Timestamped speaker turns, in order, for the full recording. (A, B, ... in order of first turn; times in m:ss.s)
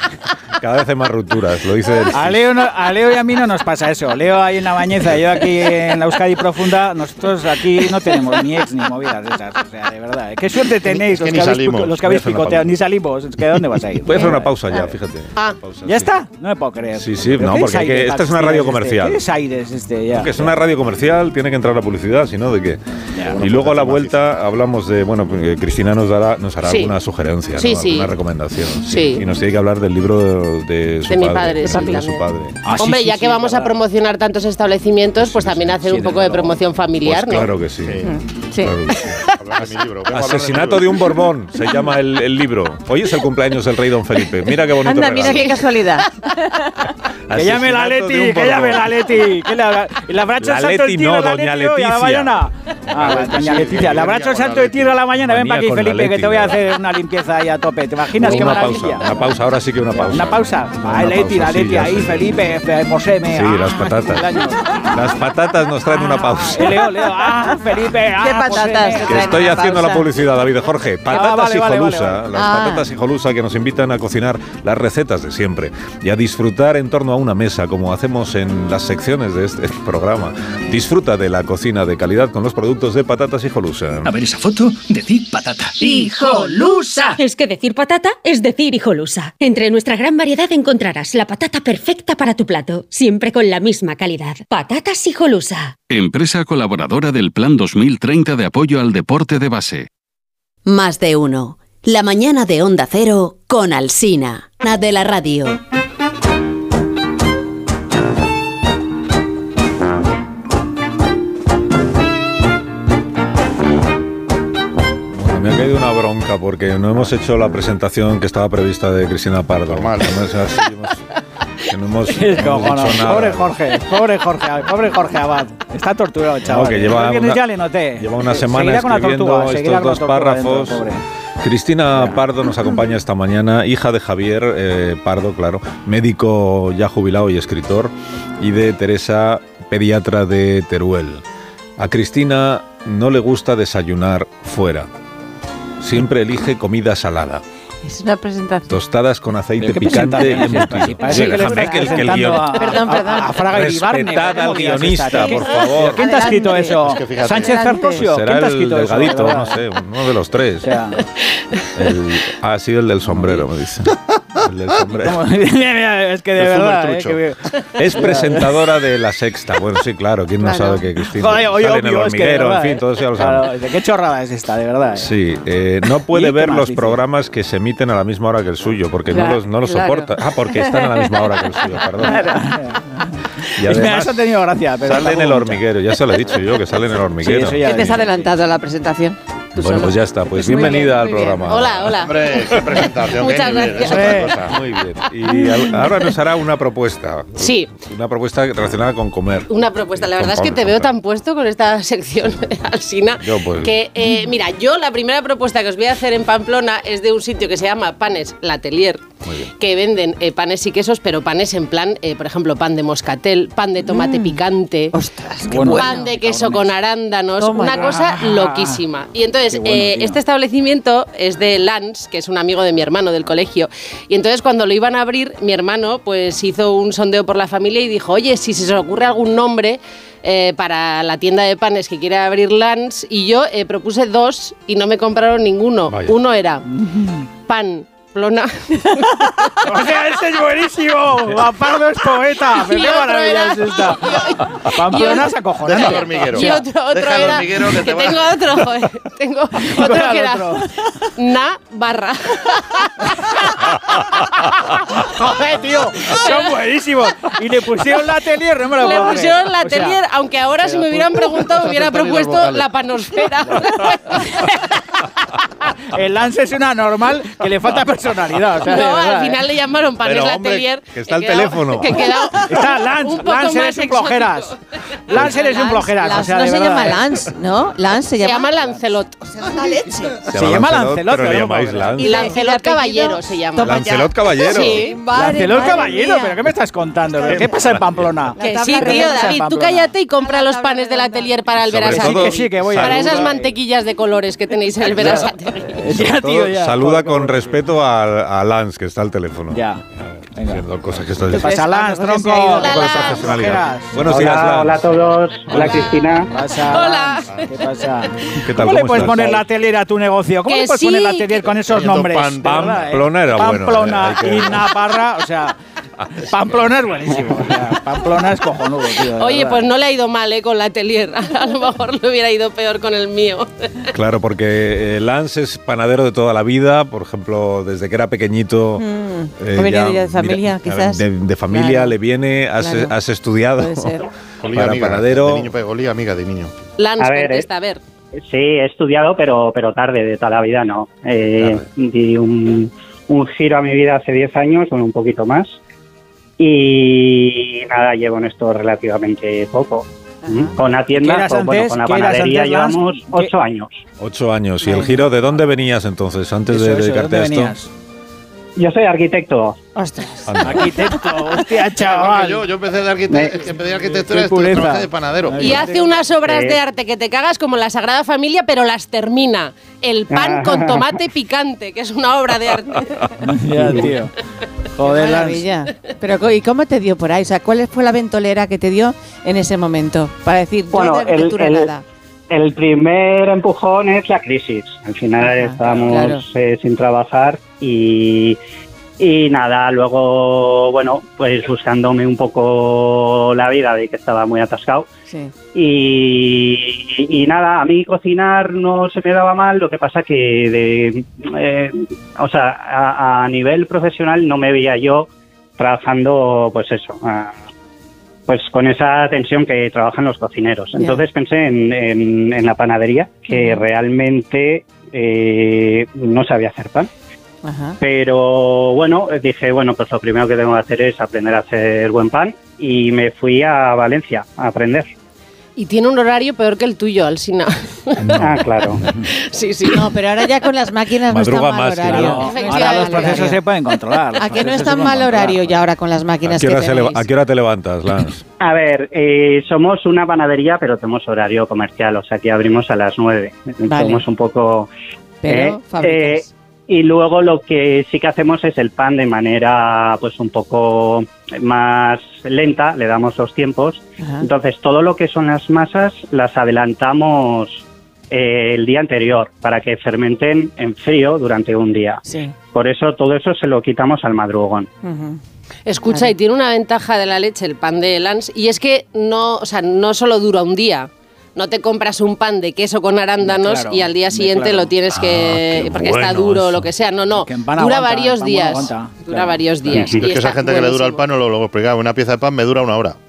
0:00.6-0:02.5 A
0:02.1-0:14.5 B
0:10.9-0:12.0 C
0:12.0-0:12.8 A
0:14.0-0:16.1 A
0:14.2-0:14.8 D
0:15.9-0:20.5 B
0:17.0-0:19.2 A
0:20.1-0:22.8 A
0:23.2-0:24.2 C
0:23.4-0:32.6 A
0:26.7-0:26.9 E
0:27.6-0:28.1 E
0:28.9-0:29.2 E
0:31.1-0:37.5 E
0:32.6-0:33.7 B
0:35.2-0:35.8 A
0:35.8-0:36.6 B
0:37.0-0:39.2 A
0:37.3-0:38.2 C
0:38.0-0:38.7 D
0:39.4-0:41.1 C
0:40.1-0:45.5 A
0:44.8-0:46.8 D
0:45.2-0:45.5 E
0:47.3-0:49.1 A
0:47.3-0:59.2 B
0:50.4-0:52.4 A
0:52.9-0:55.0 C
0:55.2-0:56.6 A
0:58.1-1:02.4 A
0:59.9-1:04.7 B
1:03.3-1:04.4 A
1:04.9-1:06.8 A
1:05.9-1:06.4 D
1:06.3-1:09.6 B
1:07.0-1:07.6 D
1:08.2-1:10.1 D
1:09.0-1:24.1 A
1:11.1-1:12.2 B
1:12.3-1:12.9 D
1:24.0-1:27.2 F
1:27.2-1:35.8 G
1:35.9-1:39.9 H
1:40.7-1:45.6 I
1:55.1-2:01.0 A
1:59.6-2:00.4 C
2:01.6-2:03.6 A
2:02.1-2:11.0 B
2:06.4-2:10.9 A
2:11.4-2:21.2 A
2:21.8-2:24.9 A
2:25.8-2:27.4 A
2:27.8-2:28.7 D
2:28.7-2:32.8 A
2:29.6-2:39.6 B
2:31.0-2:33.4 D
2:33.4-2:36.0 A
2:35.1-2:38.0 D
2:36.8-2:37.6 C
2:38.0-2:40.7 A
2:40.6-2:41.0 B
2:41.7-2:45.2 A
2:43.1-2:43.4 B
2:45.0-2:47.4 B
2:46.4-2:47.2 C
2:47.7-2:53.5 A
2:47.9-2:48.5 B
2:50.4-2:50.8 D
2:51.1-2:55.1 B
2:55.0-3:02.3 A
2:56.1-2:57.0 B
2:59.1-3:02.6 D
3:02.0-3:05.6 B
3:03.6-3:07.9 A
3:07.2-3:08.3 B
3:07.6-3:11.5 D
3:09.6-3:12.8 A
3:11.4-3:14.4 E
3:12.0-3:14.6 C
3:13.8-3:14.4 B
3:14.4-3:20.9 A
3:17.4-3:17.7 E
3:19.5-3:29.0 E
3:23.2-3:23.8 A
3:29.2-3:29.5 A
3:29.6-3:35.0 E
3:33.8-3:34.4 D
3:34.9-3:36.1 D
3:35.5-3:36.7 B
3:35.6-3:56.6 E
3:37.4-3:37.9 D
3:37.7-3:38.8 B
3:39.5-3:40.2 B
3:56.7-3:57.2 B
3:57.5-3:59.5 E
3:59.6-4:06.6 B
4:02.4-4:13.8 E
4:05.6-4:08.4 C
4:09.6-4:10.7 B
4:14.4-4:16.5 E
4:14.9-4:20.0 B
4:18.8-4:24.6 E
4:20.7-4:21.0 B
4:21.4-4:22.7 C
4:25.9-4:29.4 B
4:28.6-4:34.6 E
4:30.0-4:32.2 A
4:32.4-4:34.5 B
4:35.1-4:37.0 B
4:35.2-4:38.5 D
4:38.2-4:39.2 E
4:39.2-4:40.2 D
4:40.3-4:42.3 A
4:40.3-4:42.0 B
4:42.0-4:45.0 E
4:42.0-4:46.4 D
4:43.6-4:44.9 A
4:45.1-4:49.9 B
4:47.4-4:48.2 A
4:48.4-4:49.4 D
4:48.4-4:55.8 E
4:50.2-4:51.4 D
4:51.6-4:53.3 A
4:51.8-4:53.5 B
4:55.6-4:57.6 B
4:55.8-4:59.6 A
4:59.5-4:59.8 B
5:00.4-5:00.6 B
5:00.4-5:01.6 A
5:01.3-5:04.4 B
5:01.4-5:02.7 D
5:02.6-5:03.3 E
5:02.6-5:05.0 A
5:04.0-5:06.3 J
5:05.5-5:05.9 A
5:06.3-5:15.6 B
5:06.6-5:07.4 E
5:08.4-5:09.4 A
5:10.5-5:11.5 E
5:11.7-5:12.8 C
5:12.4-5:14.7 A
5:16.0-5:16.6 A
5:16.3-5:19.6 B
5:19.2-5:23.9 E
5:23.9-5:28.9 A
5:28.8-5:32.0 D
5:29.4-5:35.5 A
5:32.6-5:32.9 D
5:33.6-5:34.1 D
5:34.4-5:36.5 C
5:36.8-5:37.8 E
5:37.0-5:37.5 J
5:38.2-5:45.6 J
5:46.4-5:53.8 J
5:50.2-5:50.5 D
5:50.9-5:53.3 B
5:54.0-5:57.6 A
5:54.6-5:55.1 D
5:56.5-5:57.7 B
5:58.6-5:59.6 J
5:59.8-6:01.3 D
6:00.3-6:00.8 A
6:00.4-6:02.5 B
6:01.8-6:05.7 C
6:03.1-6:03.4 J
6:03.8-6:05.8 B
6:05.4-6:13.1 E
6:06.2-6:06.6 J
6:10.1-6:10.9 J
6:13.2-6:14.1 B
6:13.6-6:13.9 J
6:14.8-6:15.4 B
6:14.8-6:21.8 D
6:20.7-6:21.7 J
6:22.3-6:28.4 J
6:25.2-6:26.2 D
6:29.0-6:34.9 J
6:35.1-6:35.3 D
6:35.5-6:47.4 J
6:48.3-6:56.9 J
6:50.8-6:51.0 D
6:53.3-6:53.6 D
6:57.4-6:57.8 D
6:57.8-7:04.9 J
7:05.6-7:08.2 E
7:08.0-7:08.4 A
7:08.2-7:08.8 J
7:09.0-7:10.1 E
7:09.7-7:13.4 D
7:11.1-7:12.2 A
7:11.8-7:15.6 B
7:12.1-7:13.4 E
7:14.2-7:17.0 D
7:16.2-7:18.2 A
7:18.4-7:24.7 J
7:23.6-7:24.1 D
7:25.2-7:26.3 D
7:25.3-7:42.0 J
7:34.0-7:34.3 D
7:42.0-7:42.3 D
7:42.5-7:44.7 J
7:44.8-7:45.2 D
7:45.7-8:01.0 E
7:45.9-7:46.1 D
7:53.2-7:54.7 B
7:54.9-7:56.7 A
7:57.2-7:59.8 B
7:59.7-8:00.0 J
7:59.9-8:03.0 C